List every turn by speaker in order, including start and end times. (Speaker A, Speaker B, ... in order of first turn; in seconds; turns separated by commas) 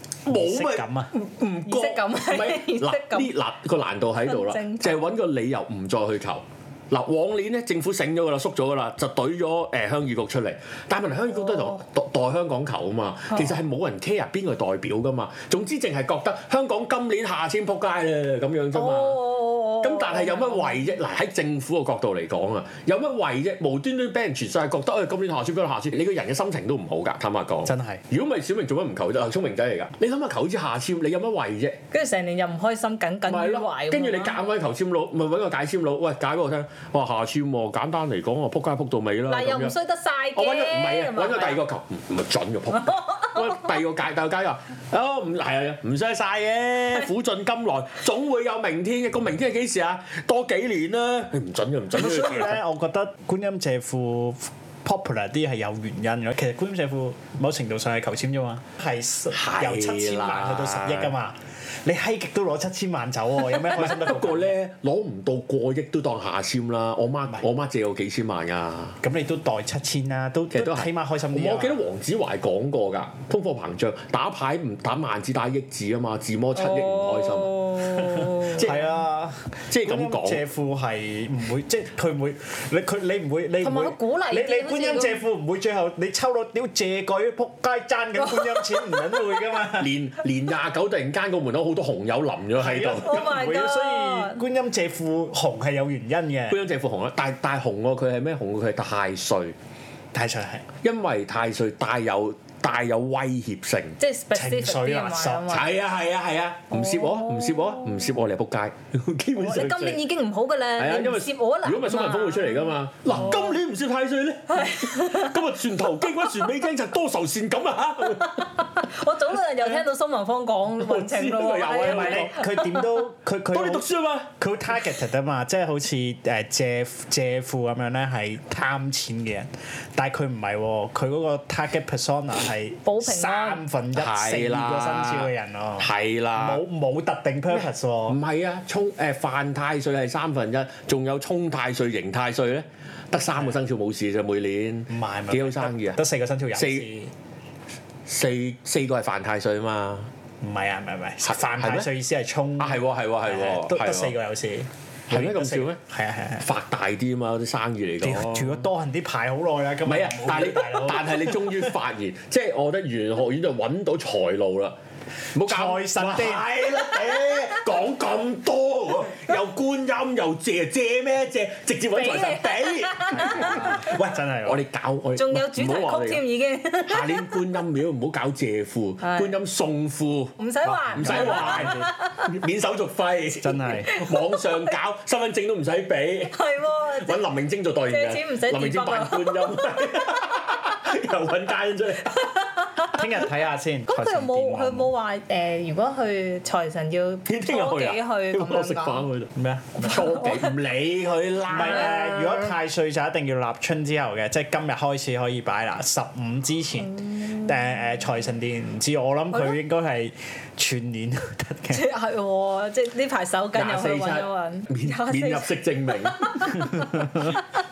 Speaker A: 0.2-1.1, Speaker B: 0.3-19.3, Speaker C: 1.6-3.3, Speaker C: 4.2-5.1, Speaker C: 11.4-11.8, Speaker C: 18.7-20.9, Speaker B: 19.8-31.8, Speaker A: 27.6-28.0, Speaker C: 31.9-34.4, Speaker B: 33.3-39.8, Speaker C: 39.3-41.6, Speaker B: 40.3-52.6, Speaker C: 42.7-43.7, Speaker A: 51.9-64.5, Speaker B: 59.3-61.1, Speaker B: 63.7-69.0, Speaker A: 69.0-71.8, Speaker B: 70.5-78.8, Speaker C: 76.5-78.7, Speaker A: 78.2-89.9, Speaker B: 79.7-80.4, Speaker C: 83.6-85.2, Speaker C: 88.4-88.8, Speaker B: 89.8-93.2, Speaker A: 92.5-96.6, Speaker C: 93.0-94.4, Speaker B: 96.5-99.5, Speaker A: 100.1-100.7, Speaker B: 100.8-104.0, Speaker C: 104.0-105.7, Speaker A: 104.3-105.6, Speaker B: 105.5-110.0, Speaker C: 106.7-108.0, Speaker C: 109.4-113.5, Speaker B: 110.8-118.8, Speaker C: 114.5-115.5, Speaker C: 118.1-122.9, Speaker B: 120.8-122.3, Speaker A: 121.8-138.2, Speaker B: 123.5-124.3, Speaker C: 132.8-133.6, Speaker B: 133.9-136.6, Speaker B: 137.5-146.0, Speaker A: 144.9-147.1, Speaker B: 146.5-146.8, Speaker B: 148.1-150.1, Speaker A: 150.4-156.4, Speaker B: 151.2-151.9, Speaker B: 152.6-154.1, Speaker B: 155.1-155.8, Speaker B: 156.4-158.7, Speaker A: 158.0-161.8, Speaker B: 159.8-164.8, Speaker B: 165.3-173.9, Speaker A: 165.4-166.6, Speaker C: 167.0-167.4, Speaker C: 171.9-174.0, Speaker A: 173.2-174.6, Speaker B: 174.4-176.2, Speaker C: 175.2-177.5, Speaker B: 176.8-180.4, Speaker C: 179.0-179.3, Speaker C: 180.4-182.4, Speaker A: 180.7-181.9, Speaker B: 180.9-192.2, Speaker A: 183.4-183.9, Speaker C: 183.9-184.7, Speaker C: 186.3-190.6, Speaker C: 192.0-193.3, Speaker A: 192.9-194.9, Speaker C: 193.9-199.1, Speaker B: 197.3-202.5, Speaker A: 199.3-200.1, Speaker A: 201.5-211.9, Speaker C: 201.6-202.0, Speaker C: 207.0-207.6, Speaker C: 211.7-217.4, Speaker B: 213.5-216.8